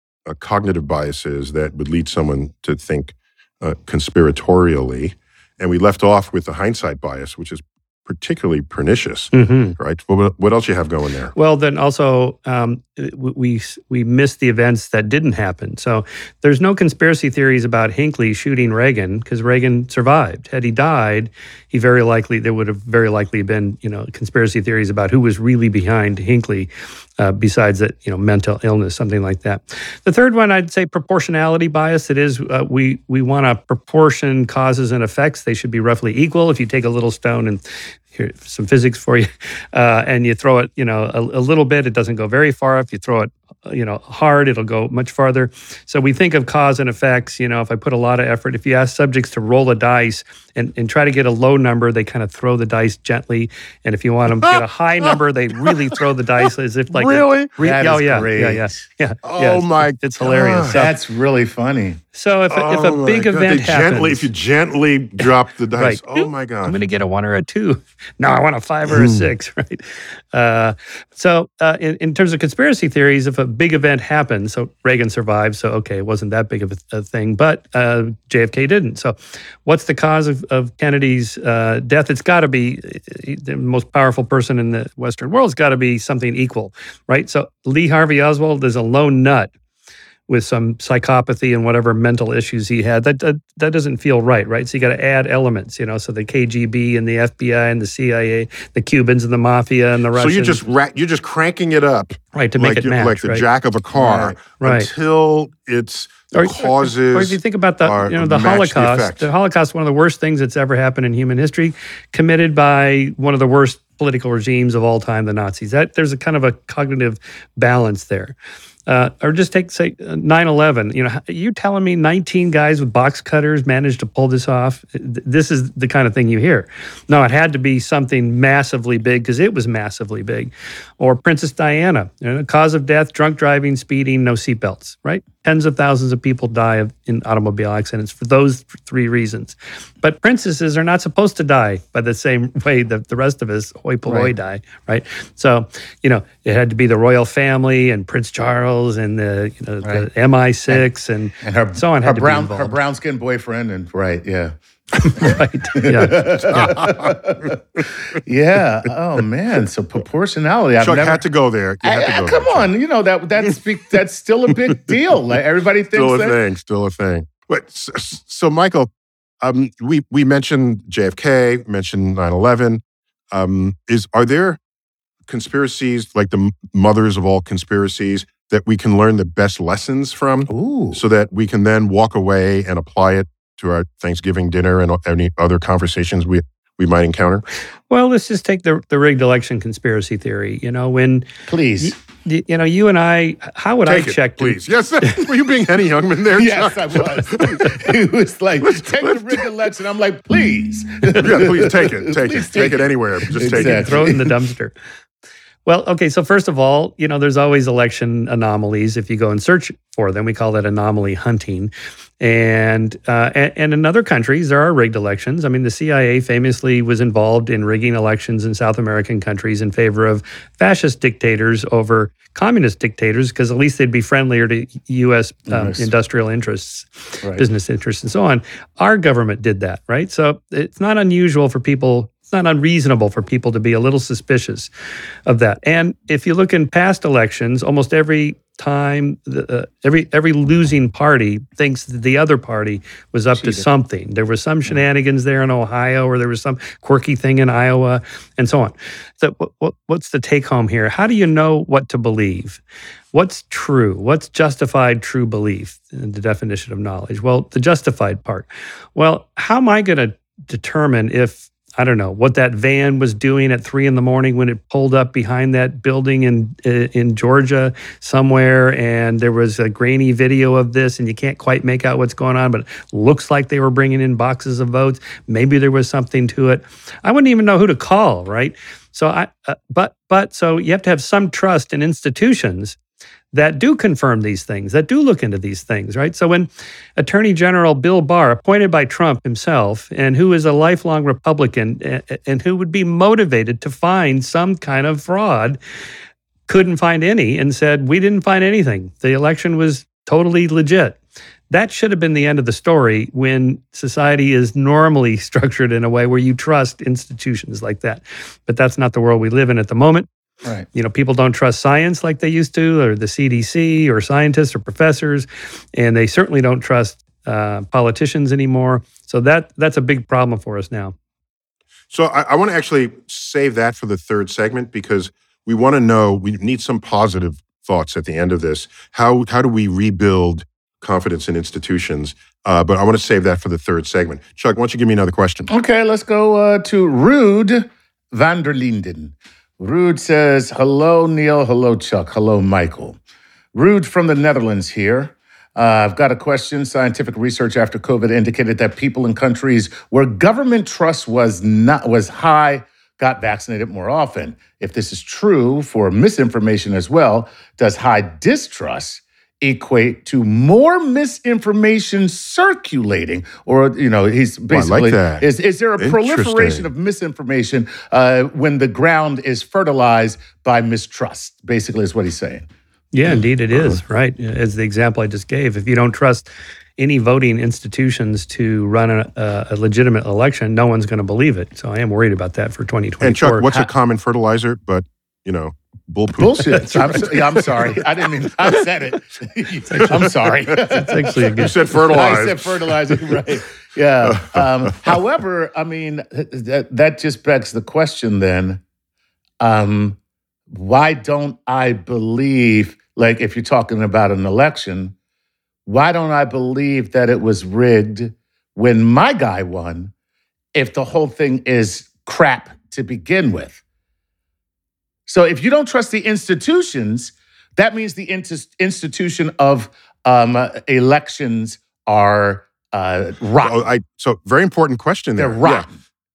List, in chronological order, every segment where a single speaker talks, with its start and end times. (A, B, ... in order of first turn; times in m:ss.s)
0:00.3-0:11.3 A
0:09.3-0:09.8 B
0:11.4-1:01.0 B
0:54.4-0:55.1 A
0:56.9-0:57.5 A
0:57.6-0:58.8 C
0:59.2-1:00.8 A
1:00.7-1:02.0 C
1:02.2-1:04.3 B
1:02.5-1:06.8 A
1:05.8-1:29.5 B
1:08.9-1:09.3 A
1:30.3-1:40.6 B
1:40.2-1:49.3 A
1:42.3-1:43.4 B
1:44.0-1:44.4 C
1:44.6-1:44.9 B
1:46.3-1:58.4 B
1:58.9-2:32.8 B
2:24.1-2:24.3 C
2:29.8-2:30.1 C
2:31.4-2:34.6 C
2:35.0-2:36.5 B
2:35.2-2:41.2 C
2:36.4-2:37.2 A
2:40.8-2:42.7 A
2:41.8-2:46.4 C
2:45.9-2:48.9 A
2:49.4-2:52.8 A
2:53.3-2:54.6 A
2:55.3-3:07.4 A
3:00.5-3:01.0 C
3:07.9-3:11.3 B
3:11.5-3:12.0 C
3:11.8-3:15.2 B
3:13.9-3:17.9 A
3:16.3-3:24.3 C
3:18.6-3:19.5 A
3:21.2-3:24.0 A
3:23.5-3:24.7 B
3:25.7-3:54.7 B
3:45.5-3:45.9 C
3:55.3-4:12.6 B
4:03.4-4:03.7 C
4:13.1-4:42.8 B
4:43.3-4:55.6 B
4:56.5-5:01.0 B
5:01.5-5:10.1 B
5:10.7-5:21.0 B
5:21.9-5:35.5 A
5:35.5-5:43.0 C
5:43.5-6:12.5 C
6:04.5-6:05.2 A
6:05.8-6:06.7 A
6:12.9-6:23.4 B
6:23.0-6:27.8 A
6:26.2-6:38.6 C
6:29.7-6:30.0 B
6:30.6-6:31.8 B
6:31.4-6:32.8 A
6:34.0-6:34.8 A
6:39.4-6:40.0 C
6:40.5-6:45.0 C
6:45.7-6:49.9 C
6:50.6-6:53.6 C
6:55.1-7:03.6 C
7:03.4-7:05.7 A
7:05.2-7:05.7 C